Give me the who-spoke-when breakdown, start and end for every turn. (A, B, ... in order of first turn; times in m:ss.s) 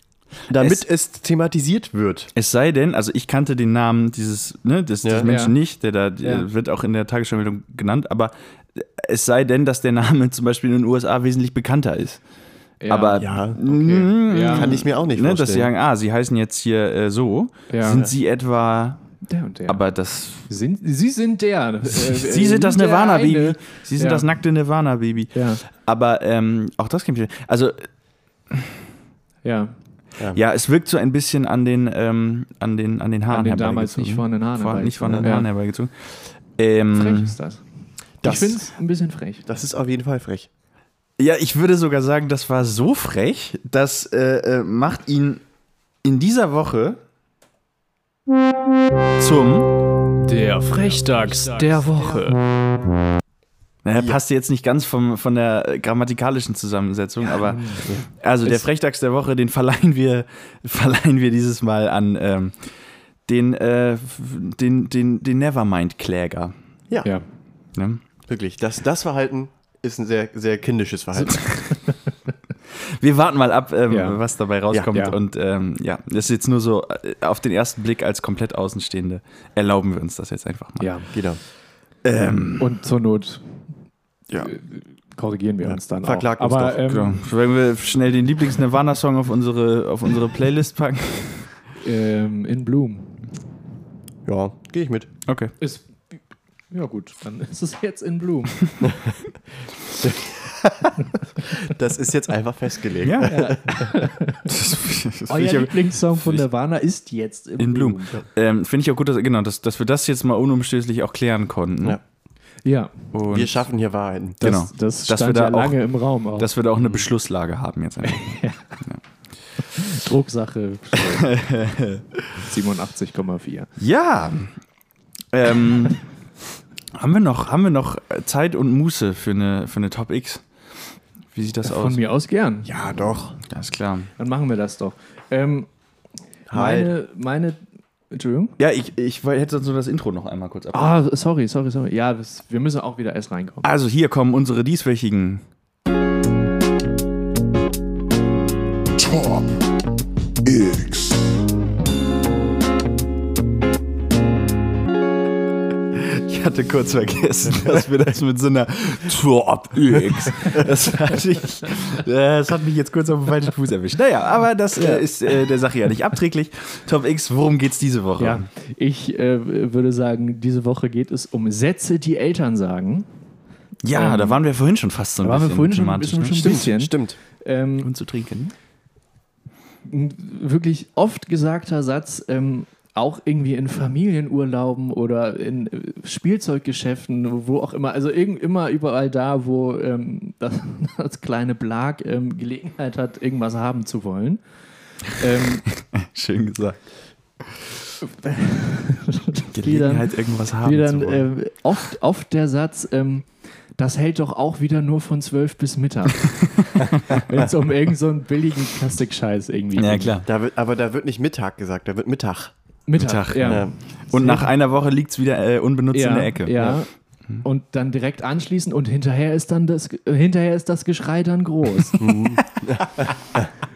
0:00.5-0:02.3 A
0:00.5-0:00.8 B
0:02.3-0:12.2 B
0:05.0-0:05.3 A
0:05.2-0:05.6 C
0:06.2-0:06.5 C
0:12.8-0:14.9 C
0:12.9-0:19.0 B
0:13.2-0:13.6 A
0:14.4-0:15.7 A
0:17.7-0:18.1 C
0:19.2-0:19.8 C
0:19.7-0:20.5 B
0:20.5-0:24.3 C
0:21.9-0:27.9 B
0:25.3-0:25.6 C
0:28.5-0:28.7 B
0:29.4-0:29.7 C
0:30.3-0:37.4 B
0:33.3-0:35.5 C
0:36.9-0:37.6 C
0:38.2-0:39.4 C
0:38.2-0:38.6 A
0:39.4-0:40.5 A
0:41.2-0:45.4 B
0:46.0-0:47.0 B
0:49.2-0:49.7 B
0:50.2-0:52.4 C
0:51.0-0:52.2 B
0:53.8-1:02.6 B
0:57.4-0:57.9 C
1:03.3-1:06.5 B
1:07.7-1:08.0 B
1:08.3-1:11.4 A
1:11.2-1:12.1 C
1:12.8-1:21.2 B
1:13.9-1:14.2 C
1:14.9-1:15.2 C
1:20.8-1:21.1 C
1:21.1-1:21.4 A
1:22.0-1:22.7 B
1:22.2-1:23.7 C
1:24.4-1:27.2 C
1:25.6-1:26.8 A
1:26.8-1:31.5 B
1:31.8-1:33.3 C
1:34.2-1:35.1 A
1:35.3-1:35.5 B
1:35.6-1:36.2 C
1:36.7-1:38.7 C
1:40.0-1:43.9 A
1:43.0-1:43.4 B
1:43.2-1:44.5 C
1:44.5-1:46.4 B
1:45.3-1:48.2 C
1:47.6-1:52.0 B
1:52.6-1:53.1 C
1:53.1-1:53.6 B
1:53.3-1:54.4 A
1:54.4-1:56.5 C
1:54.4-1:58.3 B
1:58.0-1:58.8 C
1:59.6-2:01.3 C
2:01.0-2:02.4 B
2:02.4-2:03.7 C
2:03.8-2:04.6 B
2:05.3-2:06.0 B
2:06.9-2:10.4 B
2:11.3-2:12.0 B
2:11.6-2:12.7 C
2:12.6-2:13.4 A
2:13.5-2:14.1 B
2:14.2-2:15.7 C
2:16.5-2:16.9 A
2:16.5-2:17.6 C
2:18.1-2:18.6 C
2:18.6-2:20.9 B
2:20.7-2:23.6 C
2:23.6-2:25.4 B
2:29.0-2:29.4 B
2:30.5-2:31.1 B
2:35.9-2:48.5 B
2:44.8-2:45.0 C
2:48.2-2:53.1 C
2:53.8-2:56.6 B
2:53.9-2:54.4 C
2:55.2-2:57.9 C
2:56.4-2:57.2 A
2:57.8-2:58.5 B
2:59.8-3:14.4 C
3:15.1-3:15.6 C
3:15.8-3:16.9 B
3:18.0-3:30.1 C
3:19.5-3:21.3 B
3:29.8-3:30.3 B
3:30.2-3:32.5 A
3:32.9-3:34.5 C
3:33.0-3:37.4 B
3:33.4-3:33.7 A
3:35.9-3:42.0 C
3:42.0-3:43.5 A